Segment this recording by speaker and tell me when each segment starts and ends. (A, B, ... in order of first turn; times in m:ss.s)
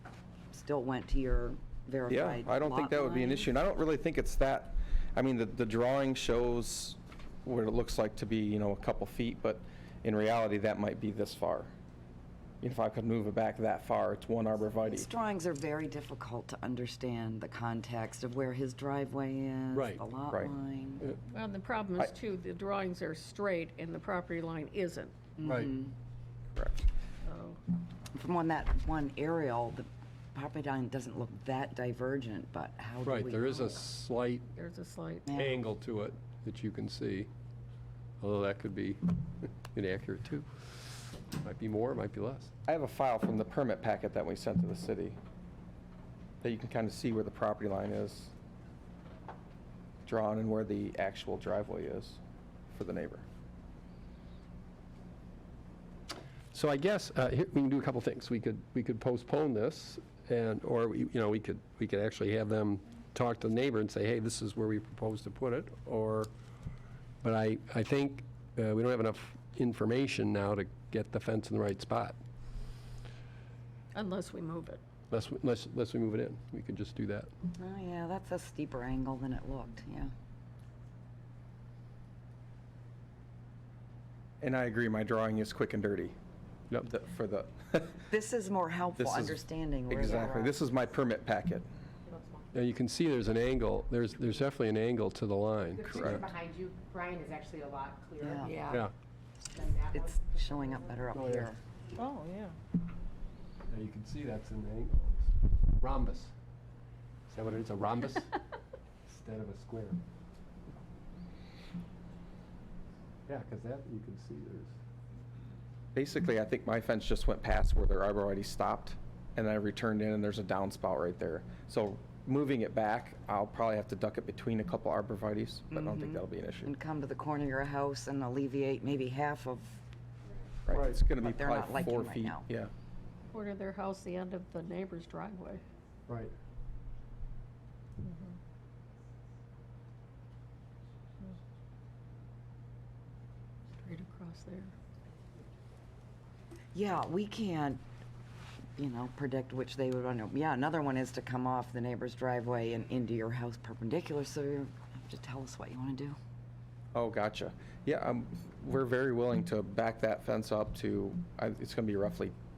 0:00.5-0:03.5 A
0:02.1-0:11.7 B
0:12.6-0:15.1 B
0:14.8-0:21.2 A
0:19.7-0:20.0 C
0:21.3-0:25.2 D
0:25.4-0:25.9 A
0:25.4-0:25.7 C
0:27.2-0:27.6 D
0:28.1-0:33.8 A
0:33.0-0:34.5 C
0:34.6-0:35.3 D
0:35.2-0:35.6 A
0:35.3-0:37.3 C
0:38.2-0:42.5 C
0:42.7-0:45.2 B
0:46.4-0:48.3 B
0:50.0-0:52.2 B
0:52.7-0:53.2 B
0:56.5-1:06.3 C
1:07.2-1:12.2 C
1:13.9-1:14.8 D
1:15.1-1:17.3 C
1:17.6-1:20.1 A
1:24.4-1:26.2 B
1:26.8-1:28.0 B
1:28.1-1:30.6 A
1:29.0-1:31.7 B
1:32.0-1:32.5 E
1:32.5-1:36.2 C
1:35.7-1:38.8 E
1:35.9-1:36.2 B
1:38.2-1:38.6 A
1:38.5-1:38.8 D
1:39.5-1:41.0 E
1:39.9-1:41.6 A
1:41.1-1:41.5 C
1:43.7-1:46.3 C
1:47.3-1:48.4 C
1:49.0-1:50.0 C
1:53.3-1:54.7 C
1:55.9-2:06.7 B
2:05.7-2:09.8 A
2:10.7-2:12.7 B
2:11.2-2:12.4 A
2:13.3-2:15.6 D
2:23.8-2:24.7 D
2:26.7-2:27.8 A
2:28.8-2:36.2 A
2:36.9-2:42.3 B